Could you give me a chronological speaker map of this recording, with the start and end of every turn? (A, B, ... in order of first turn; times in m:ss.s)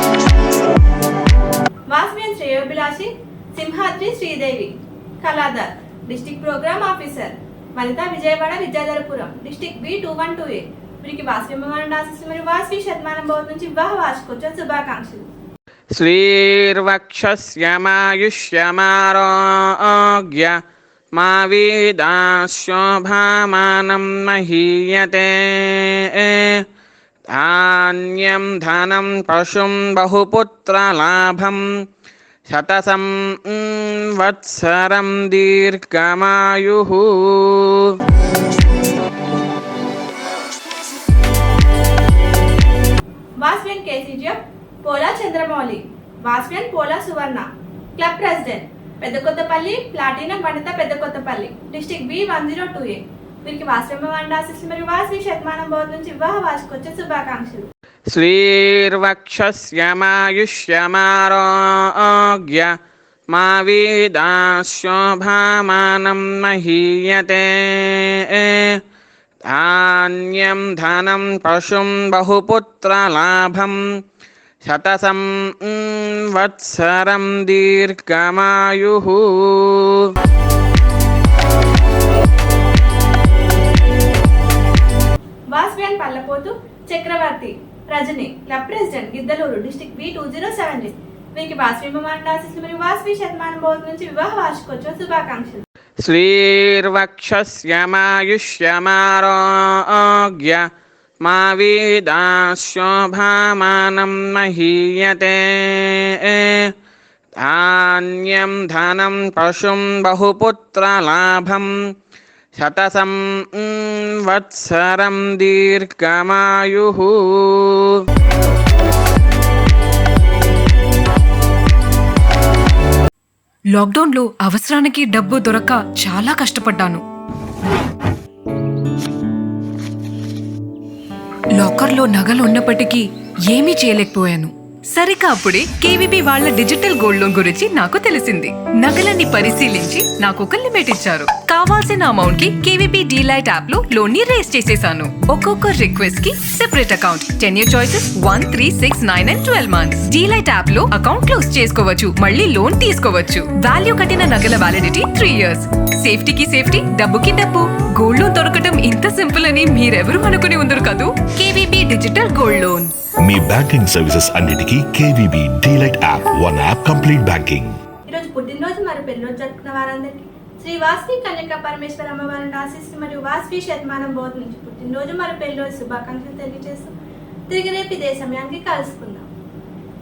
0:01.9-0:15.2 A
0:16.0-0:20.6 B
0:21.2-0:26.6 B
0:27.3-0:31.6 B
0:32.5-0:37.9 B
0:43.4-0:47.5 A
0:48.0-0:57.7 A
0:58.1-1:02.7 B
1:03.3-1:08.8 B
1:09.5-1:13.8 B
1:14.6-1:20.1 B
1:25.5-1:35.6 A
1:36.0-1:40.6 B
1:41.2-1:46.7 B
1:47.4-1:51.7 B
1:52.6-1:58.0 B
2:03.8-2:07.0 C
2:11.6-2:42.9 C
2:43.2-2:47.8 D
2:48.1-2:56.9 A
2:57.5-2:59.3 A